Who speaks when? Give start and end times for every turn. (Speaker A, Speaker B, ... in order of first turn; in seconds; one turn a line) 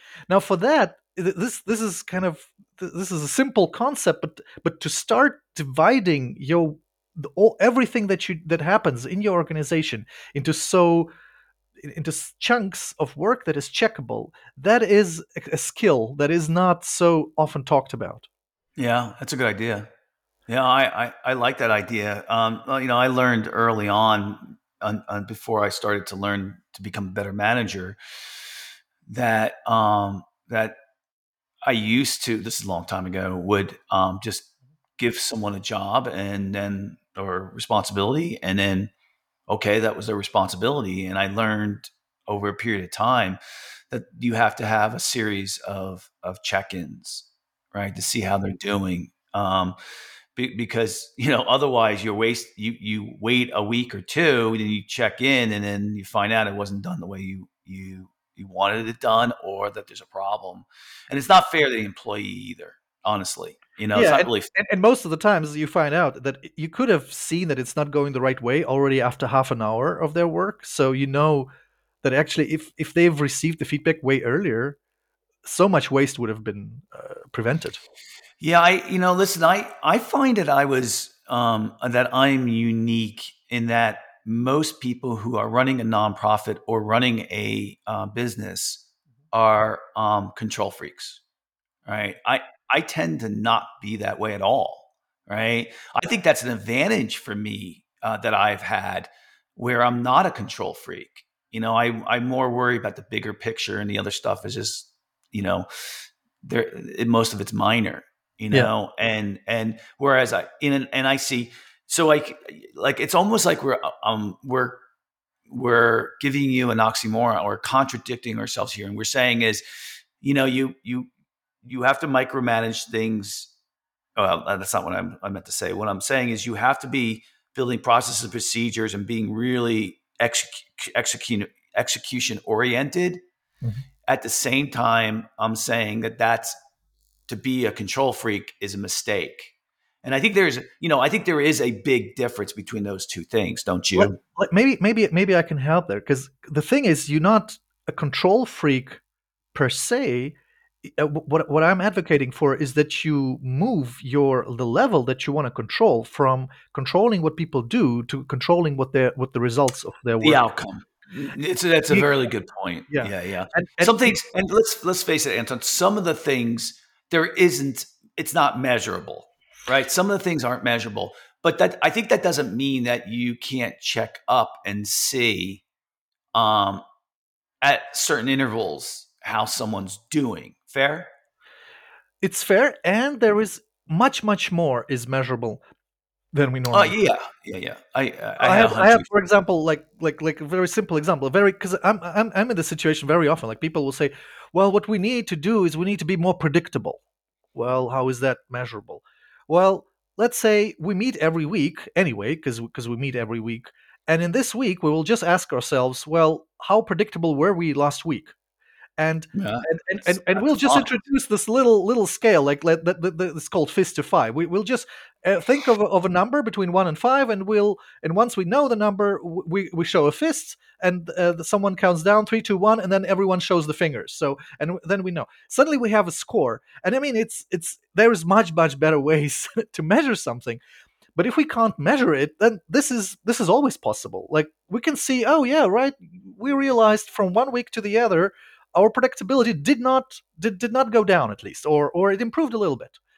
Speaker A: 0.3-11.1
Speaker A: 11.8-18.3
Speaker B: 18.8-19.9
Speaker B: 20.5-28.0
Speaker B: 29.1-30.8
Speaker B: 31.7-34.5
Speaker B: 35.0-38.9
Speaker B: 39.5-43.4
Speaker B: 43.9-49.8
Speaker B: 50.4-64.5
Speaker A: 63.9-71.5
Speaker A: 72.0-74.8
Speaker A: 75.4-77.8
Speaker B: 78.4-91.2
Speaker B: 91.9-105.7
Speaker B: 106.4-114.8
Speaker B: 115.5-119.6
Speaker B: 120.2-121.1
Speaker B: 121.6-123.5
Speaker B: 124.2-133.2
Speaker B: 134.1-136.6
Speaker B: 137.3-139.5
Speaker B: 140.0-144.2
Speaker A: 144.0-149.0
Speaker A: 149.5-160.4
Speaker B: 160.2-175.6
Speaker A: 162.9-164.2
Speaker B: 176.3-176.8
Speaker B: 177.6-181.1
Speaker A: 182.2-185.6
Speaker A: 186.3-186.9
Speaker B: 186.7-189.1
Speaker A: 188.4-197.0
Speaker A: 197.6-208.3
Speaker A: 209.0-230.6
Speaker B: 209.3-210.9
Speaker A: 231.2-243.0